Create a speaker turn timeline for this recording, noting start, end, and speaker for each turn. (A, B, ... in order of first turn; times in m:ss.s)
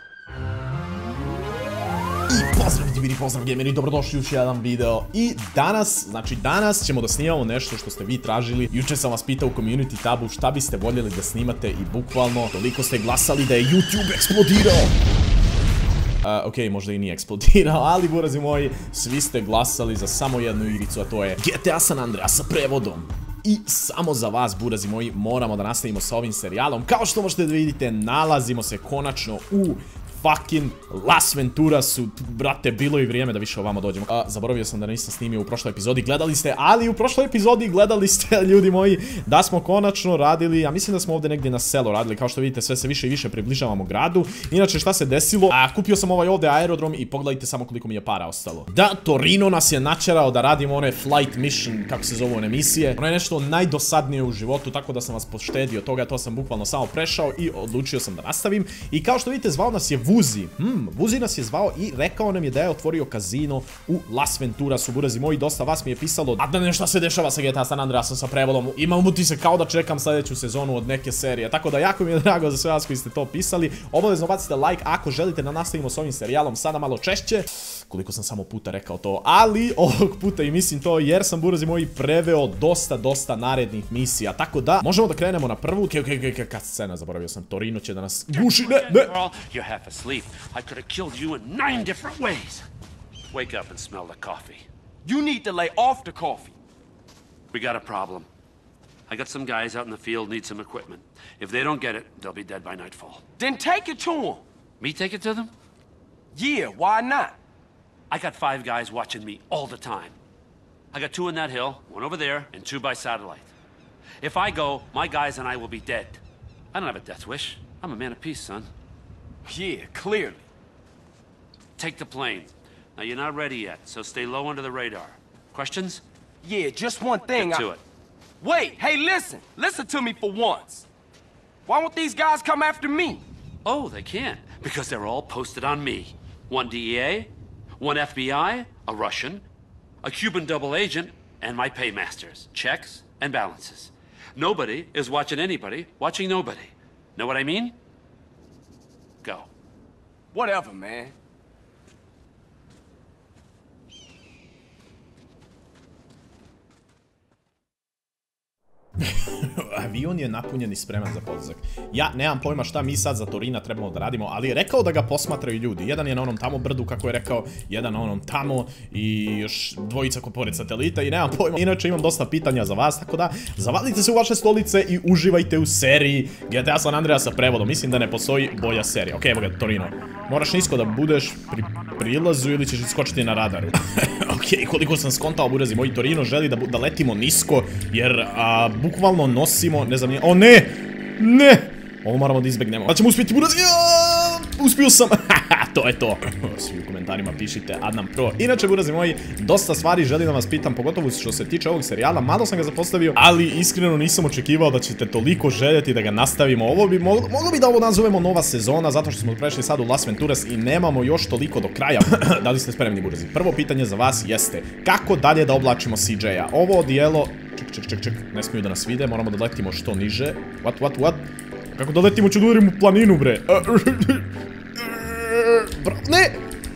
0:02.3-0:14.9 A
0:16.2-1:29.1 A
1:28.4-1:32.7 B
1:33.3-1:34.6 B
1:35.0-1:36.6 C
1:37.5-1:38.3 B
1:39.1-1:43.2 B
1:43.4-1:44.4 C
1:44.8-1:45.5 B
1:46.3-1:47.4 C
1:48.1-1:50.2 B
1:50.9-1:53.5 B
1:54.2-1:56.2 B
1:56.7-1:58.7 B
1:59.5-2:00.4 C
2:01.8-2:06.0 B
2:06.4-2:07.5 C
2:07.4-2:07.8 B
2:08.4-2:10.8 C
2:11.7-2:13.2 C
2:13.6-2:19.4 B
2:20.0-2:27.8 B
2:29.2-2:29.5 B
2:30.3-2:31.1 C
2:39.0-3:46.4 A